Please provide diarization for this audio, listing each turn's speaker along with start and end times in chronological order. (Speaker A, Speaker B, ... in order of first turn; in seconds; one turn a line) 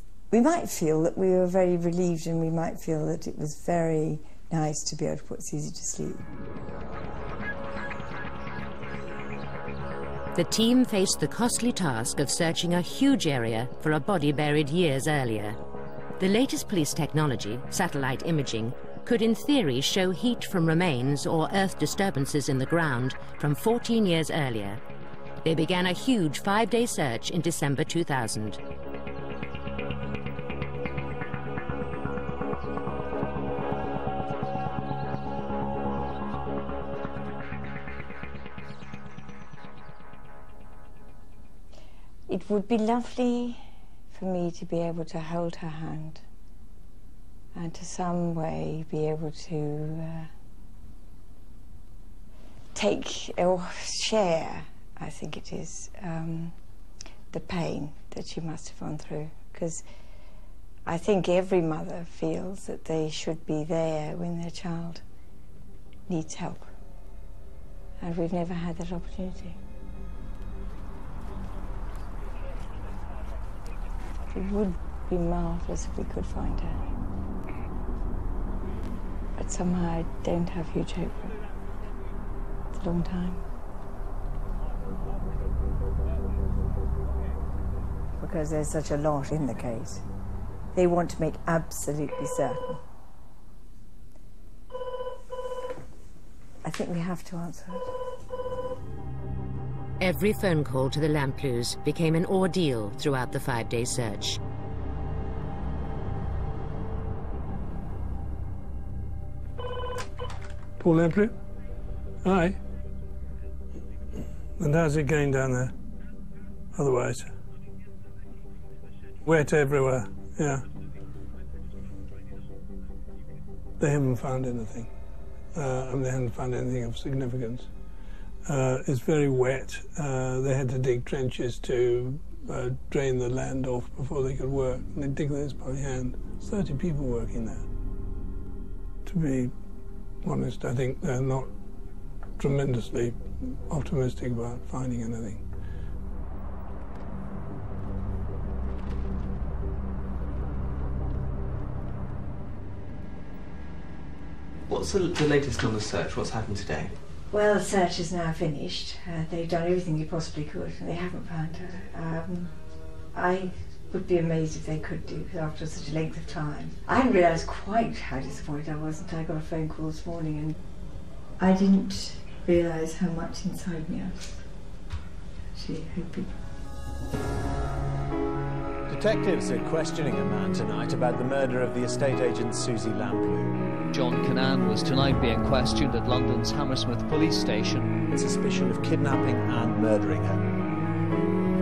Speaker A: 0.3-6.2
Speaker B: 10.3-15.6
Speaker B: 16.2-24.8
Speaker B: 25.4-28.6
Speaker A: 42.3-46.2
Speaker A: 47.5-50.3
Speaker A: 52.8-56.5
Speaker A: 57.3-59.8
Speaker A: 60.9-65.0
Speaker A: 66.1-66.7
Speaker A: 68.0-69.6
Speaker A: 74.3-76.8
Speaker A: 79.4-81.4
Speaker A: 82.7-83.4
Speaker A: 88.2-90.0
Speaker A: 90.7-92.8
Speaker A: 96.6-97.9
Speaker B: 100.0-104.4
Speaker C: 110.8-111.4
Speaker C: 112.2-112.6
Speaker C: 114.6-115.7
Speaker C: 116.7-117.3
Speaker C: 119.2-120.6
Speaker C: 123.8-124.9
Speaker C: 125.5-127.7
Speaker C: 128.4-137.7
Speaker C: 139.1-139.5
Speaker C: 140.2-141.5
Speaker C: 142.4-145.4
Speaker D: 154.7-156.9
Speaker A: 157.3-162.5
Speaker A: 163.1-170.6
Speaker A: 171.4-174.4
Speaker A: 175.6-176.4
Speaker E: 178.9-183.5
Speaker F: 183.9-187.9
Speaker E: 188.1-190.4